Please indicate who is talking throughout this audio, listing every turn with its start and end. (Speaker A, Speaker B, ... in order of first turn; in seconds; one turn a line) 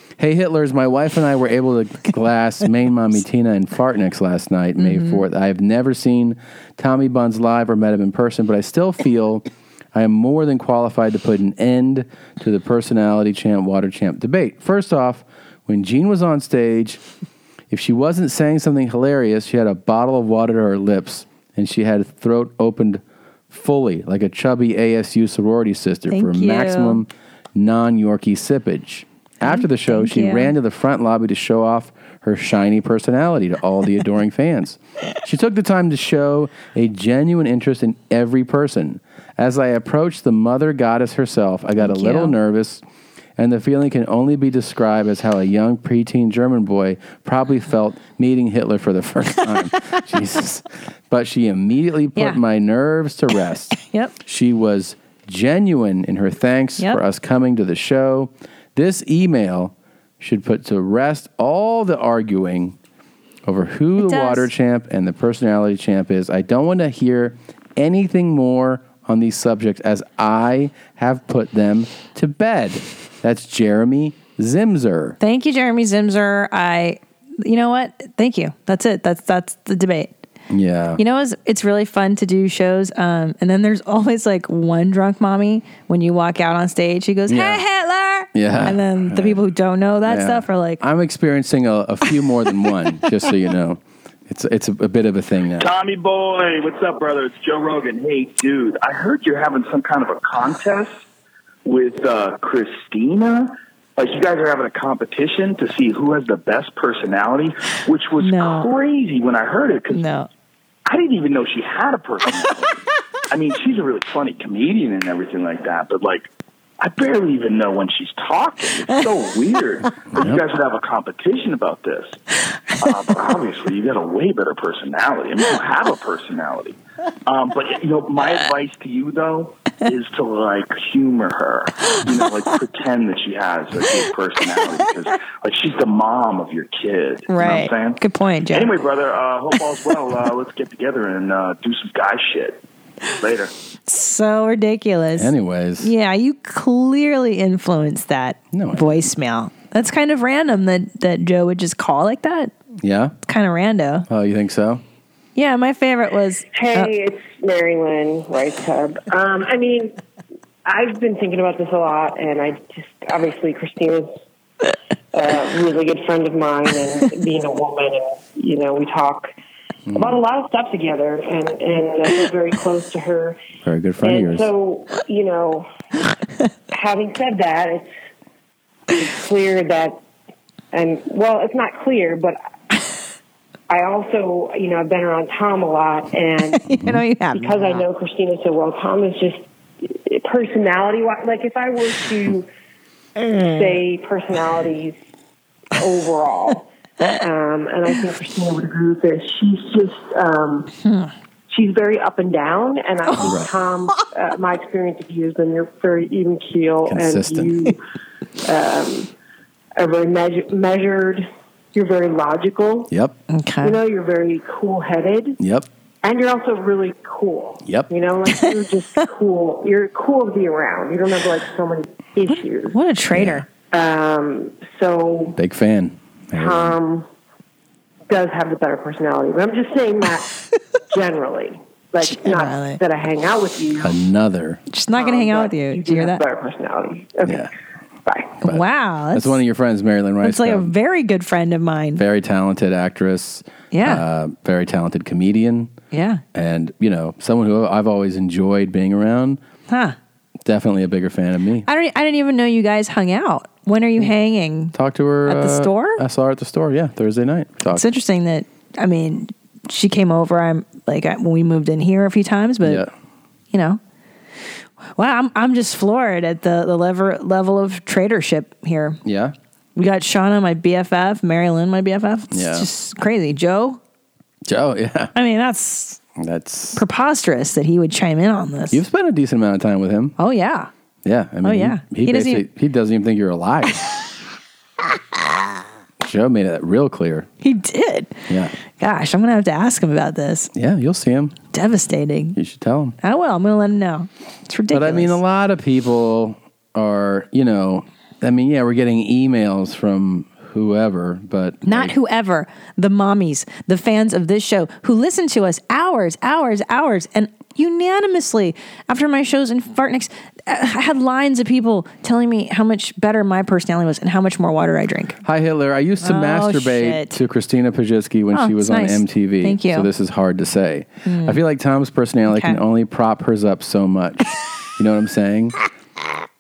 Speaker A: 0.2-17.0
Speaker B: 4.8-5.2
Speaker A: 17.7-42.8
Speaker B: 26.1-27.0
Speaker B: 29.4-30.5
Speaker B: 41.8-42.3
Speaker A: 43.4-62.8
Speaker B: 53.8-54.1
Speaker A: 63.5-75.2
Speaker B: 64.0-64.5
Speaker B: 75.2-80.1
Speaker A: 80.5-81.0
Speaker B: 81.0-90.8
Speaker A: 87.3-87.6
Speaker A: 88.3-89.4
Speaker A: 90.1-95.7
Speaker C: 95.6-101.0
Speaker C: 101.7-110.0
Speaker B: 108.2-108.7
Speaker B: 109.9-110.3
Speaker C: 110.9-112.8
Speaker C: 113.3-116.3
Speaker C: 116.8-122.2
Speaker A: 120.1-120.4
Speaker C: 122.8-142.6
Speaker B: 137.3-138.8
Speaker C: 143.2-143.5
Speaker B: 143.9-152.5
Speaker A: 145.2-145.9
Speaker A: 148.5-149.0
Speaker A: 152.8-153.2
Speaker B: 153.2-154.1
Speaker A: 154.1-154.8
Speaker B: 155.4-156.9
Speaker D: 156.5-160.0
Speaker D: 160.7-164.1
Speaker D: 165.1-169.3
Speaker A: 169.9-170.2
Speaker D: 169.9-173.4
Speaker A: 173.7-174.5
Speaker D: 174.0-175.7
Speaker D: 176.7-177.9
Speaker D: 178.9-180.0
Speaker D: 180.7-182.4
Speaker D: 183.7-186.7
Speaker B: 186.6-187.8
Speaker D: 187.3-192.5
Speaker D: 193.4-195.0
Speaker D: 195.7-200.7
Speaker D: 201.5-207.8
Speaker B: 203.1-203.4
Speaker A: 203.2-203.5
Speaker A: 206.9-207.7
Speaker D: 208.4-209.1
Speaker D: 209.8-212.9
Speaker B: 213.3-213.8
Speaker D: 213.6-215.4
Speaker A: 215.4-215.7
Speaker D: 216.0-222.8
Speaker B: 222.7-223.5
Speaker A: 223.1-223.4
Speaker D: 223.7-225.4
Speaker A: 225.3-226.8
Speaker D: 226.3-227.1
Speaker D: 228.1-230.3
Speaker D: 230.9-234.0
Speaker B: 232.0-232.8
Speaker A: 233.8-234.6
Speaker B: 234.7-236.2
Speaker D: 234.9-237.5
Speaker A: 237.2-237.5
Speaker D: 238.1-238.4
Speaker B: 238.4-239.4
Speaker A: 238.4-240.7
Speaker B: 240.2-242.0
Speaker A: 242.0-245.7
Speaker B: 243.7-244.0
Speaker B: 245.9-246.2
Speaker A: 246.3-249.4
Speaker B: 249.7-250.0
Speaker A: 250.5-251.7
Speaker B: 251.7-256.0
Speaker A: 254.7-257.9
Speaker B: 257.7-262.8
Speaker A: 262.6-262.9
Speaker B: 263.5-263.8
Speaker B: 264.9-269.0
Speaker A: 269.1-269.3
Speaker B: 269.8-273.8
Speaker A: 272.3-272.7
Speaker A: 274.5-275.1
Speaker B: 275.1-276.0
Speaker A: 276.2-276.8
Speaker B: 276.8-278.8
Speaker A: 278.7-280.2
Speaker B: 280.2-280.7
Speaker A: 281.1-283.9
Speaker B: 281.4-282.5
Speaker A: 286.0-287.3
Speaker B: 287.4-290.5
Speaker A: 290.5-291.4
Speaker B: 291.5-292.4
Speaker A: 292.4-293.0
Speaker B: 293.0-295.2
Speaker A: 294.7-301.9
Speaker B: 301.6-315.2
Speaker A: 315.2-325.6
Speaker B: 316.0-317.2
Speaker B: 318.3-319.9
Speaker B: 321.1-321.4
Speaker B: 322.3-322.6